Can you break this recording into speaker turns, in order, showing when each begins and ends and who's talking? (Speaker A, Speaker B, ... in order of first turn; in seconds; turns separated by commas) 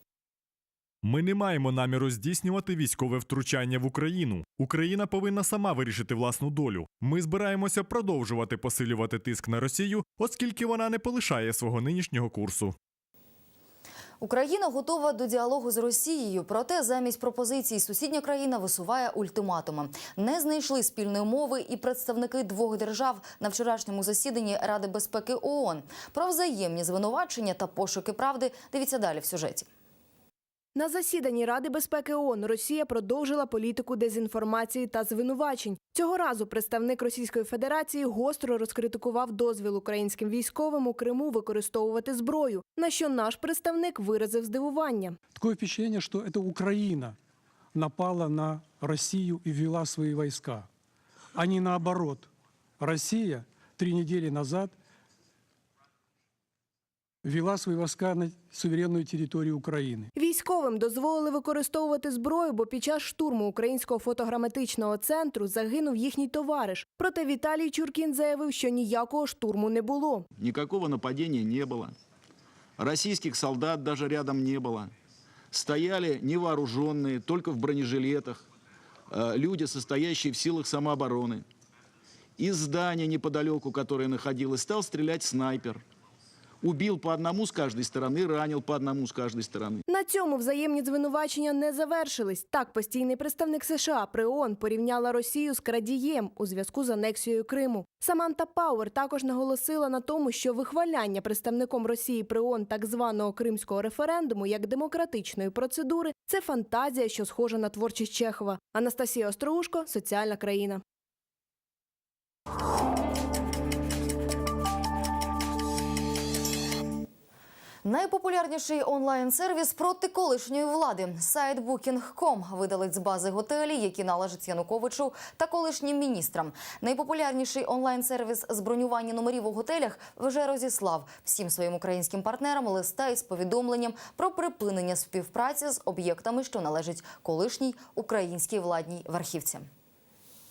Speaker A: 1.0-12.8, Speaker B: 14.2-29.7, Speaker C: 30.8-45.2, Speaker D: 45.4-47.2, Speaker D: 47.7-50.7, Speaker D: 51.4-54.8, Speaker D: 57.2-60.1, Speaker C: 60.2-70.3, Speaker E: 70.4-72.0, Speaker E: 72.8-74.9, Speaker E: 75.5-78.4, Speaker E: 79.1-81.5, Speaker E: 82.4-85.8, Speaker E: 86.6-89.8, Speaker C: 89.9-110.8, Speaker B: 117.8-139.7